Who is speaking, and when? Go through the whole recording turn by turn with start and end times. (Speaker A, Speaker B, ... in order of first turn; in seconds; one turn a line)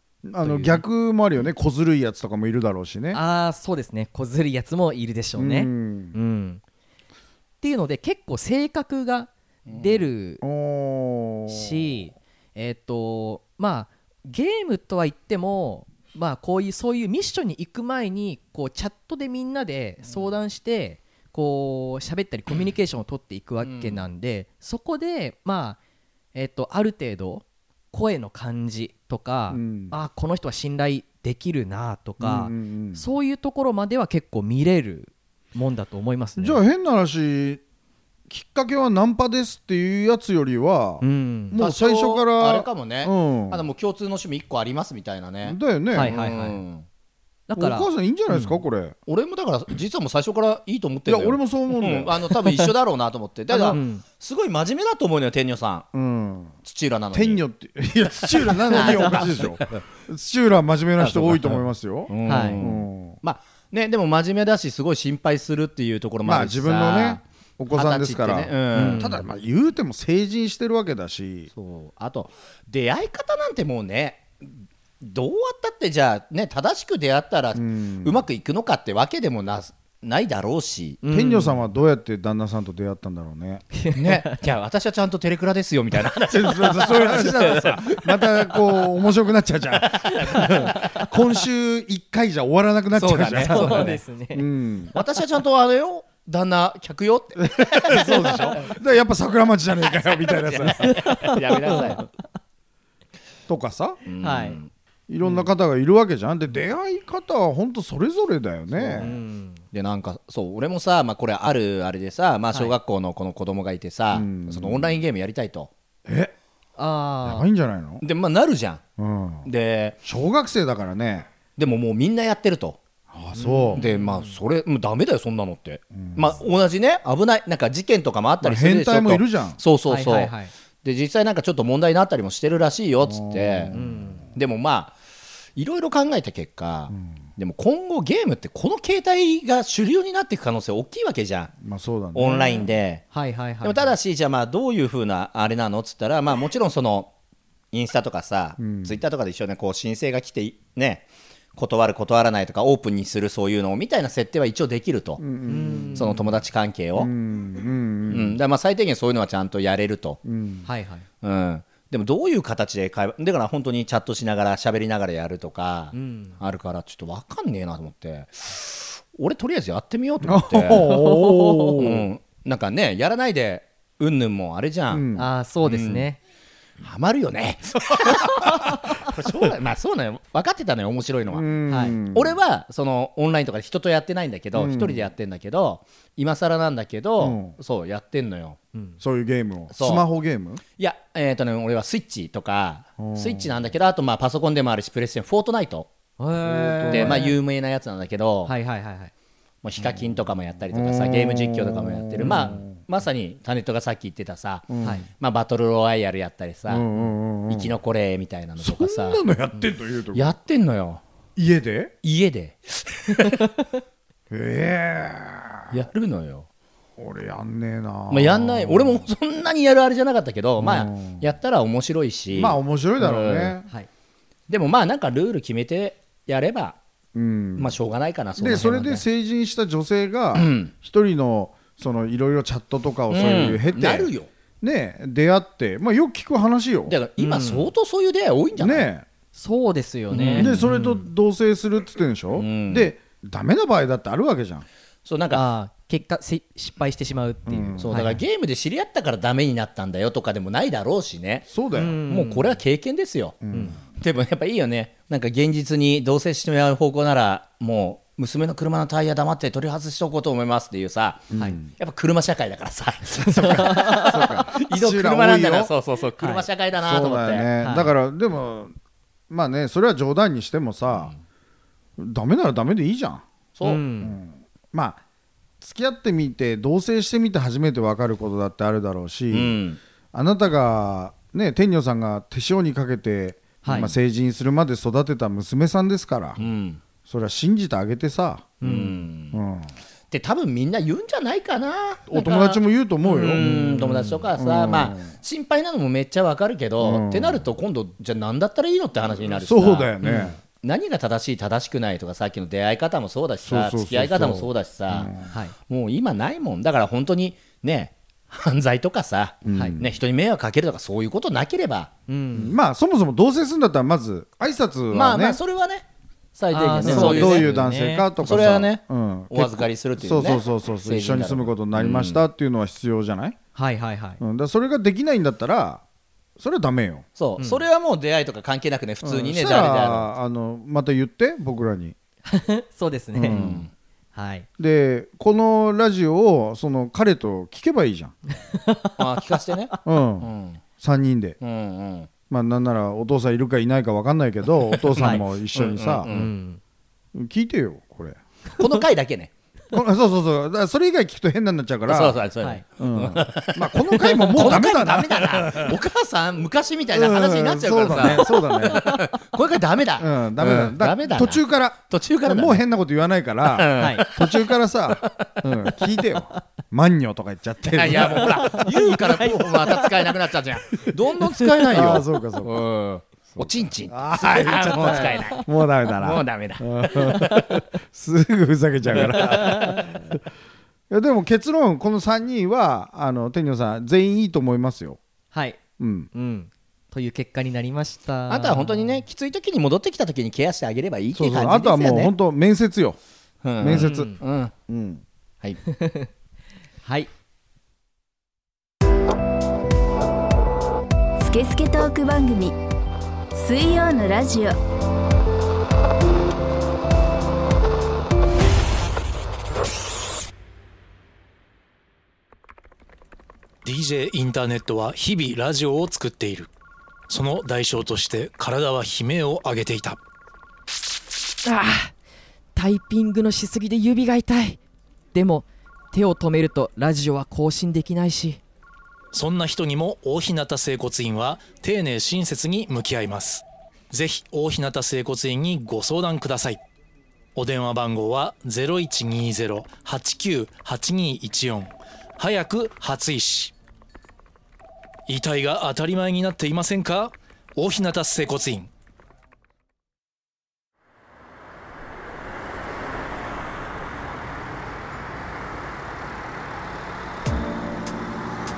Speaker A: 0.2-3.2
Speaker B: 0.4-0.8
Speaker B: 3.1-6.6
Speaker A: 5.4-6.2
Speaker B: 7.6-10.4
Speaker C: 9.7-10.1
Speaker A: 10.4-12.0
Speaker B: 11.5-25.8
Speaker C: 23.6-24.1
Speaker B: 26.4-36.6
Speaker A: 29.5-29.9
Speaker A: 32.2-33.0
Speaker A: 36.4-37.6
Speaker A: 38.3-43.6
Speaker B: 41.0-41.6
Speaker C: 41.6-46.9
Speaker A: 45.5-46.1
Speaker B: 45.9-46.6
Speaker B: 47.5-47.9
Speaker A: 47.6-49.0
Speaker C: 49.1-55.9
Speaker A: 51.1-52.3
Speaker A: 53.5-53.8
Speaker B: 53.7-54.0
Speaker A: 55.9-56.6
Speaker C: 56.6-57.4
Speaker A: 57.1-63.2
Speaker C: 58.2-59.8
Speaker B: 58.9-59.1
Speaker C: 61.0-69.2
Speaker B: 62.3-62.6
Speaker A: 66.2-71.5
Speaker B: 68.7-69.2
Speaker C: 71.5-81.0
Speaker A: 77.6-78.2
Speaker B: 81.0-81.6
Speaker A: 81.1-83.7
Speaker B: 83.7-84.4
Speaker C: 84.0-88.9
Speaker A: 86.3-94.9
Speaker C: 89.8-90.9
Speaker B: 90.3-91.1
Speaker C: 92.9-94.0
Speaker B: 93.4-94.5
Speaker C: 95.0-98.8
Speaker A: 97.4-101.2
Speaker C: 99.8-102.0
Speaker B: 100.6-102.1
Speaker A: 103.5-104.0
Speaker C: 104.0-104.7
Speaker B: 104.2-104.6
Speaker A: 105.1-109.2
Speaker C: 108.8-109.1
Speaker B: 109.0-109.6
Speaker C: 109.7-115.7
Speaker A: 114.1-115.0
Speaker A: 116.1-116.3
Speaker B: 116.8-117.5
Speaker A: 117.2-118.0
Speaker C: 118.0-118.8
Speaker A: 119.0-119.5
Speaker C: 119.5-120.0
Speaker A: 120.0-121.3
Speaker C: 121.6-122.8
Speaker A: 123.1-123.8
Speaker B: 123.3-124.4
Speaker C: 123.7-130.3
Speaker A: 126.0-126.2
Speaker A: 128.4-129.6
Speaker B: 129.9-130.5
Speaker C: 130.8-133.7
Speaker A: 133.1-134.3
Speaker B: 133.7-134.2
Speaker C: 134.3-135.0
Speaker C: 135.6-141.5
Speaker A: 141.6-142.7
Speaker C: 142.2-143.1
Speaker B: 143.1-143.9
Speaker C: 143.6-147.1
Speaker C: 147.7-155.2
Speaker A: 148.6-149.0
Speaker A: 155.2-156.2
Speaker B: 155.5-156.2
Speaker C: 156.0-157.1
Speaker A: 157.0-158.4
Speaker C: 158.1-160.2
Speaker A: 160.2-160.7
Speaker B: 160.7-161.1
Speaker C: 161.2-171.0
Speaker B: 165.9-166.4
Speaker A: 170.2-172.1
Speaker B: 170.8-171.8
Speaker C: 171.8-175.1
Speaker A: 174.9-175.3
Speaker B: 175.2-176.2
Speaker C: 175.6-176.1
Speaker C: 176.8-188.6
Speaker B: 178.4-179.1
Speaker A: 181.3-182.4
Speaker B: 181.7-182.0
Speaker A: 184.5-185.1
Speaker A: 187.2-187.6
Speaker A: 189.0-190.6
Speaker C: 189.7-190.1
Speaker C: 190.8-195.9
Speaker A: 193.0-193.5
Speaker B: 196.2-197.4
Speaker A: 196.4-197.3
Speaker C: 196.9-198.5
Speaker B: 198.5-199.1
Speaker C: 199.6-206.9
Speaker A: 199.8-200.1
Speaker A: 200.7-202.8
Speaker B: 202.2-202.6
Speaker A: 204.7-205.0
Speaker A: 206.7-207.8
Speaker C: 207.5-209.2
Speaker A: 208.6-210.3
Speaker C: 210.1-211.0
Speaker A: 211.4-211.9
Speaker C: 212.0-213.5
Speaker A: 214.3-215.8
Speaker C: 215.7-216.5
Speaker A: 217.0-219.1
Speaker C: 218.1-223.6
Speaker A: 220.6-221.2
Speaker A: 222.3-223.7
Speaker C: 224.5-226.8
Speaker A: 227.2-227.8
Speaker C: 227.6-229.0
Speaker A: 228.4-237.0
Speaker C: 230.3-230.7
Speaker C: 233.1-234.3
Speaker C: 236.9-238.9
Speaker B: 237.2-237.7
Speaker A: 238.6-239.1
Speaker B: 239.3-241.0
Speaker C: 240.1-240.7
Speaker A: 240.4-244.7
Speaker C: 242.4-242.9
Speaker C: 245.1-245.5
Speaker B: 245.3-248.2
Speaker A: 247.5-248.1
Speaker C: 247.8-251.5
Speaker A: 251.5-252.0
Speaker B: 251.7-252.6
Speaker C: 252.1-267.5
Speaker A: 253.4-253.8
Speaker A: 261.3-261.7
Speaker A: 263.3-265.7
Speaker B: 263.3-264.2
Speaker B: 266.2-266.5
Speaker A: 266.8-268.7
Speaker B: 267.6-267.9
Speaker A: 269.3-271.1
Speaker C: 270.9-271.2
Speaker A: 272.0-273.2
Speaker C: 273.6-273.8
Speaker B: 273.6-274.2
Speaker A: 274.0-275.0
Speaker A: 275.6-279.6
Speaker C: 279.3-279.8
Speaker A: 280.1-286.4
Speaker B: 283.6-283.9
Speaker C: 286.4-286.8
Speaker A: 287.1-288.7
Speaker B: 288.6-289.0
Speaker C: 288.6-289.4
Speaker A: 289.3-289.7
Speaker C: 290.1-305.1
Speaker A: 292.1-295.1
Speaker B: 293.4-293.9
Speaker A: 296.8-297.5
Speaker A: 299.3-300.4
Speaker A: 303.4-305.3
Speaker B: 305.3-305.5
Speaker C: 305.7-311.9
Speaker A: 309.4-309.9
Speaker B: 312.1-312.6
Speaker A: 312.3-315.4
Speaker C: 314.9-315.9
Speaker C: 316.4-317.6
Speaker B: 316.5-318.1
Speaker A: 316.8-323.4
Speaker C: 318.2-322.2
Speaker B: 323.6-324.2
Speaker A: 324.2-325.8
Speaker A: 326.4-327.1
Speaker C: 327.2-330.1
Speaker B: 327.4-327.6
Speaker A: 329.0-331.9
Speaker B: 332.3-333.4
Speaker A: 333.1-333.7
Speaker C: 333.3-333.7
Speaker B: 334.1-334.5
Speaker A: 334.6-338.2
Speaker B: 338.5-339.0
Speaker C: 339.0-340.6
Speaker A: 339.9-341.4
Speaker C: 341.4-342.1
Speaker A: 342.3-346.1
Speaker C: 344.7-346.3
Speaker B: 345.0-345.2
Speaker B: 346.1-346.6
Speaker A: 347.1-348.2
Speaker C: 348.6-349.3
Speaker A: 349.7-352.2
Speaker C: 351.9-362.6
Speaker A: 352.8-355.8
Speaker A: 356.9-358.9
Speaker B: 358.1-359.0
Speaker A: 360.0-368.6
Speaker C: 363.4-365.5
Speaker B: 363.8-364.1
Speaker C: 367.7-377.6
Speaker B: 368.1-370.1
Speaker A: 371.6-372.7
Speaker A: 373.4-380.2
Speaker B: 374.8-375.4
Speaker C: 378.9-379.8
Speaker B: 379.2-380.1
Speaker A: 380.9-385.0
Speaker B: 385.3-385.6
Speaker A: 385.8-386.1
Speaker B: 386.1-389.0
Speaker C: 388.3-392.1
Speaker A: 391.1-393.0
Speaker C: 393.4-394.5
Speaker A: 393.6-394.1
Speaker B: 393.7-394.2
Speaker A: 394.7-395.0
Speaker B: 395.7-396.1
Speaker B: 396.8-397.1
Speaker D: 401.2-402.6
Speaker D: 403.3-404.6
Speaker E: 413.6-416.5
Speaker E: 417.1-420.0
Speaker B: 421.4-421.9
Speaker B: 422.6-424.6
Speaker B: 425.1-428.4
Speaker E: 429.1-436.6
Speaker E: 437.4-443.5
Speaker E: 445.1-448.7